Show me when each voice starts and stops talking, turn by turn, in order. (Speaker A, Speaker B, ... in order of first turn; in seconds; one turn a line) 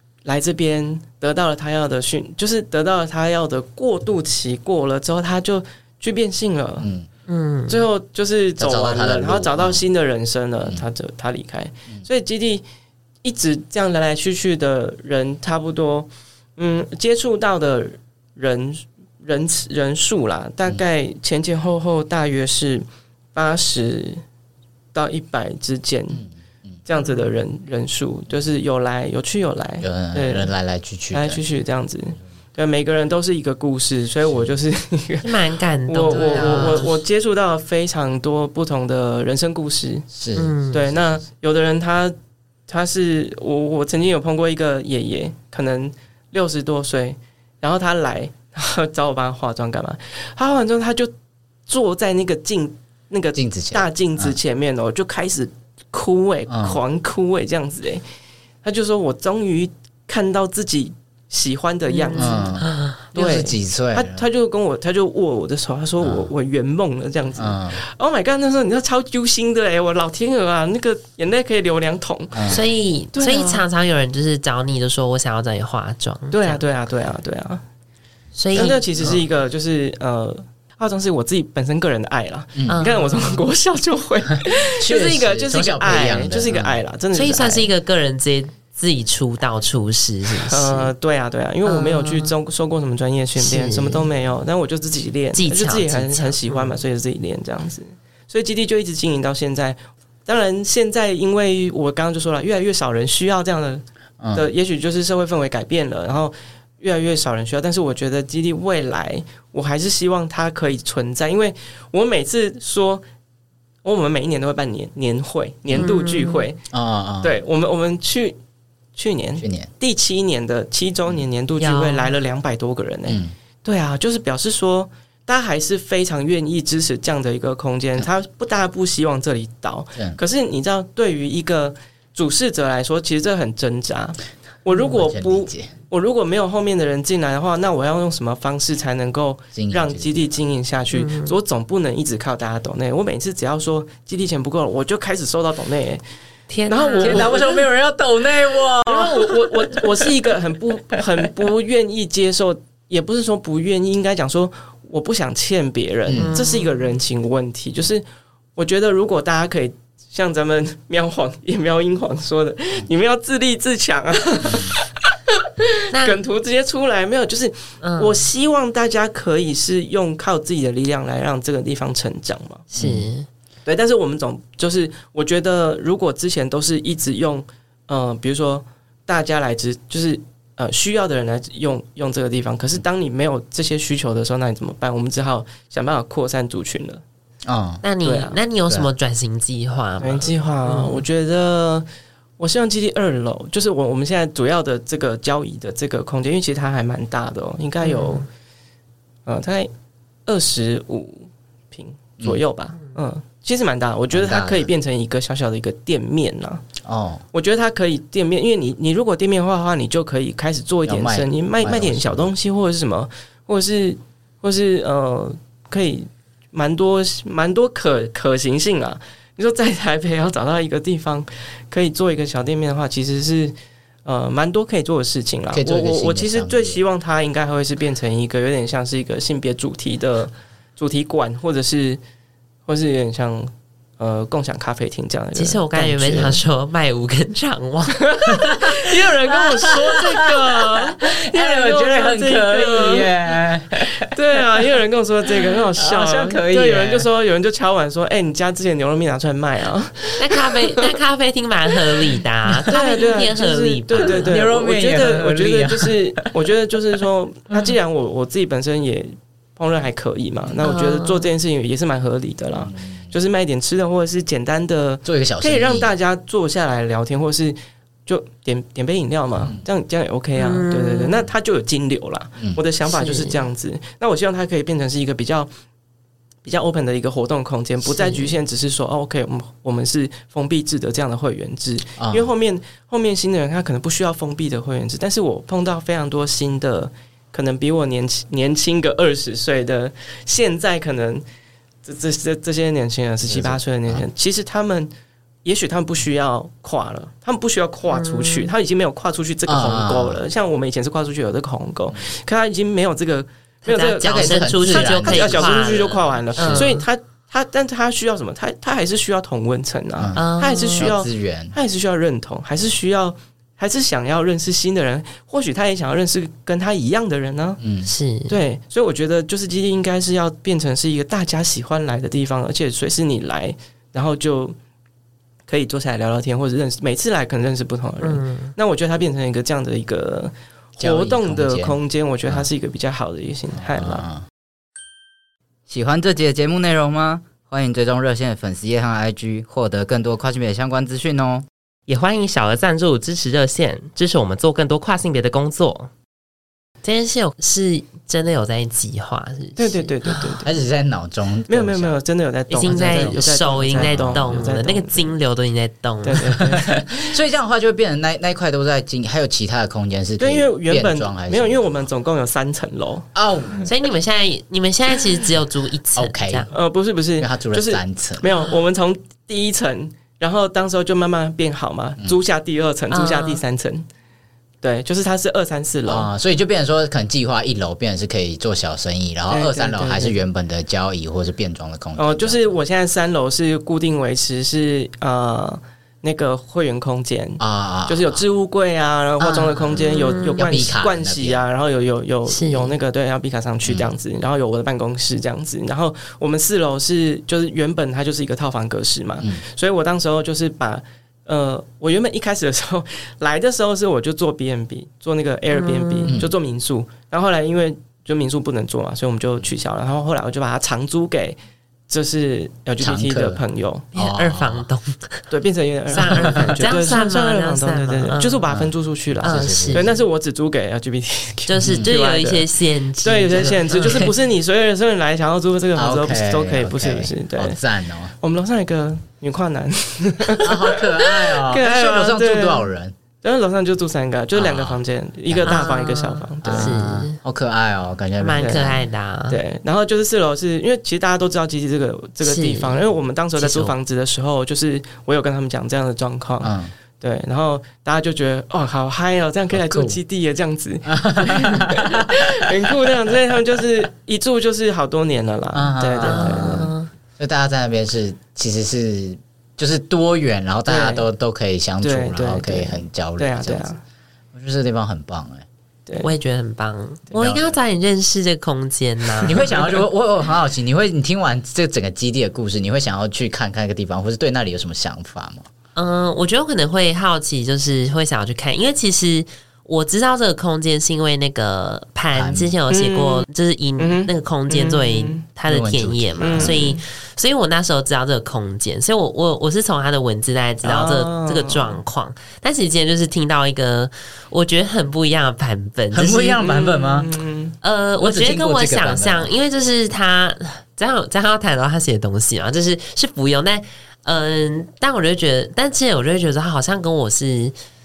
Speaker A: 0.2-6.9
Speaker B: 6.8-7.1
Speaker C: 7.3-7.8
Speaker A: 7.7-12.6
Speaker B: 8.6-9.8
Speaker A: 13.2-24.2
Speaker A: 24.9-26.2
Speaker B: 26.1-26.8
Speaker A: 26.9-30.5
Speaker B: 29.8-31.4
Speaker A: 31.1-35.3
Speaker C: 35.2-37.0
Speaker A: 35.9-40.1
Speaker B: 36.1-36.9
Speaker B: 40.1-41.2
Speaker C: 40.4-40.8
Speaker A: 40.7-42.1
Speaker A: 42.7-51.1
Speaker A: 51.7-58.0
Speaker B: 53.4-54.4
Speaker B: 56.5-56.8
Speaker A: 58.6-62.5
Speaker C: 61.9-63.0
Speaker B: 62.1-64.2
Speaker A: 63.1-72.6
Speaker B: 66.0-66.3
Speaker B: 67.4-67.8
Speaker B: 72.3-72.6
Speaker C: 72.5-76.6
Speaker A: 73.1-73.6
Speaker A: 76.3-77.6
Speaker C: 78.3-79.2
Speaker A: 78.5-87.7
Speaker C: 82.7-83.4
Speaker B: 84.8-86.8
Speaker C: 87.1-90.9
Speaker A: 90.5-103.8
Speaker C: 91.7-92.3
Speaker C: 93.4-94.1
Speaker C: 95.3-96.8
Speaker B: 104.2-104.5
Speaker A: 104.3-113.0
Speaker A: 113.8-116.6
Speaker C: 115.7-116.5
Speaker B: 116.7-117.3
Speaker A: 117.2-118.4
Speaker A: 119.0-146.0
Speaker B: 119.4-119.7
Speaker C: 121.6-122.1
Speaker B: 123.1-123.3
Speaker B: 134.8-135.7
Speaker B: 139.5-140.3
Speaker C: 140.9-141.4
Speaker C: 146.5-147.4
Speaker A: 146.7-147.6
Speaker B: 147.0-150.3
Speaker A: 148.9-158.0
Speaker B: 150.9-151.3
Speaker B: 156.1-156.3
Speaker C: 156.1-157.0
Speaker A: 158.6-172.6
Speaker B: 164.4-164.8
Speaker C: 165.9-166.2
Speaker C: 167.8-168.2
Speaker C: 172.7-173.3
Speaker B: 172.8-173.1
Speaker A: 173.7-187.0
Speaker B: 187.4-187.8
Speaker C: 187.8-191.0
Speaker A: 188.0-188.4
Speaker A: 190.0-191.9
Speaker A: 192.4-198.2
Speaker C: 197.8-198.2
Speaker A: 199.2-199.7
Speaker A: 200.2-206.6
Speaker B: 204.1-204.7
Speaker B: 206.8-207.2
Speaker A: 207.3-223.5
Speaker B: 210.9-212.3
Speaker A: 224.1-232.0
Speaker B: 225.5-226.8
Speaker A: 232.7-236.4
Speaker C: 235.3-238.1
Speaker A: 237.9-243.1
Speaker B: 238.3-244.1
Speaker A: 244.0-250.9
Speaker B: 245.8-247.1
Speaker C: 250.2-254.3
Speaker B: 252.5-252.7
Speaker A: 252.7-275.5
Speaker B: 253.9-256.3
Speaker C: 260.6-261.3
Speaker B: 262.6-263.1
Speaker B: 265.0-265.9
Speaker C: 270.4-271.3
Speaker C: 272.9-273.4
Speaker A: 276.4-291.2
Speaker C: 277.9-278.4
Speaker B: 282.0-282.3
Speaker A: 291.8-294.9
Speaker B: 293.2-294.0
Speaker A: 295.4-317.6
Speaker C: 297.9-298.5
Speaker B: 299.5-300.2
Speaker C: 303.6-306.9
Speaker B: 304.0-305.6
Speaker B: 306.4-306.8
Speaker B: 310.0-310.2
Speaker C: 310.1-310.9
Speaker B: 310.8-311.5
Speaker B: 317.6-317.9
Speaker C: 317.9-318.4
Speaker A: 318.3-324.6
Speaker A: 325.5-334.1
Speaker C: 328.0-328.5
Speaker B: 330.8-332.4
Speaker B: 333.5-334.2
Speaker B: 335.7-341.4
Speaker C: 341.9-345.9
Speaker C: 346.8-350.4
Speaker A: 349.6-350.5
Speaker B: 350.4-352.0
Speaker A: 351.5-355.1
Speaker C: 352.5-356.4
Speaker B: 352.6-354.5
Speaker A: 356.0-357.1
Speaker B: 356.4-361.9
Speaker A: 360.2-363.6
Speaker B: 363.1-363.6
Speaker C: 363.6-366.5
Speaker B: 365.9-366.5
Speaker A: 366.5-373.9
Speaker B: 367.2-368.3
Speaker C: 372.9-373.4
Speaker A: 374.6-376.1
Speaker B: 375.9-382.6
Speaker A: 379.3-380.2
Speaker A: 381.9-411.4
Speaker B: 387.4-388.2
Speaker C: 389.2-390.5
Speaker B: 390.4-391.4
Speaker C: 392.3-392.7
Speaker C: 405.5-406.1
Speaker B: 406.1-406.3
Speaker A: 411.9-413.9
Speaker B: 412.8-413.4
Speaker C: 413.9-415.3
Speaker B: 413.9-414.6
Speaker A: 415.3-422.5
Speaker C: 415.9-418.4
Speaker B: 418.5-419.9
Speaker C: 419.2-419.9
Speaker C: 421.5-424.1
Speaker B: 421.6-421.9
Speaker A: 423.0-427.6
Speaker B: 423.7-424.1
Speaker B: 425.8-428.1
Speaker A: 428.2-432.7
Speaker B: 430.4-432.9
Speaker A: 433.2-436.8
Speaker B: 434.3-435.6
Speaker C: 435.4-437.2
Speaker B: 436.4-438.8
Speaker C: 438.2-439.4
Speaker A: 438.4-438.7
Speaker A: 439.3-456.7
Speaker C: 442.2-442.8
Speaker C: 443.4-443.7
Speaker B: 446.4-446.7
Speaker B: 449.5-450.0
Speaker B: 450.9-452.2
Speaker B: 455.5-463.7
Speaker C: 456.0-456.9
Speaker A: 460.7-461.1
Speaker A: 461.8-463.8
Speaker B: 464.3-465.4
Speaker C: 466.0-469.5
Speaker B: 467.2-467.5
Speaker A: 469.2-469.8
Speaker B: 469.2-475.5
Speaker C: 475.8-496.5
Speaker B: 482.1-482.5
Speaker A: 482.7-483.3
Speaker A: 483.8-485.2
Speaker B: 485.5-486.8
Speaker A: 486.2-486.8
Speaker A: 490.6-491.8
Speaker B: 495.9-497.1
Speaker A: 496.4-497.6
Speaker C: 497.6-507.5
Speaker B: 498.0-499.3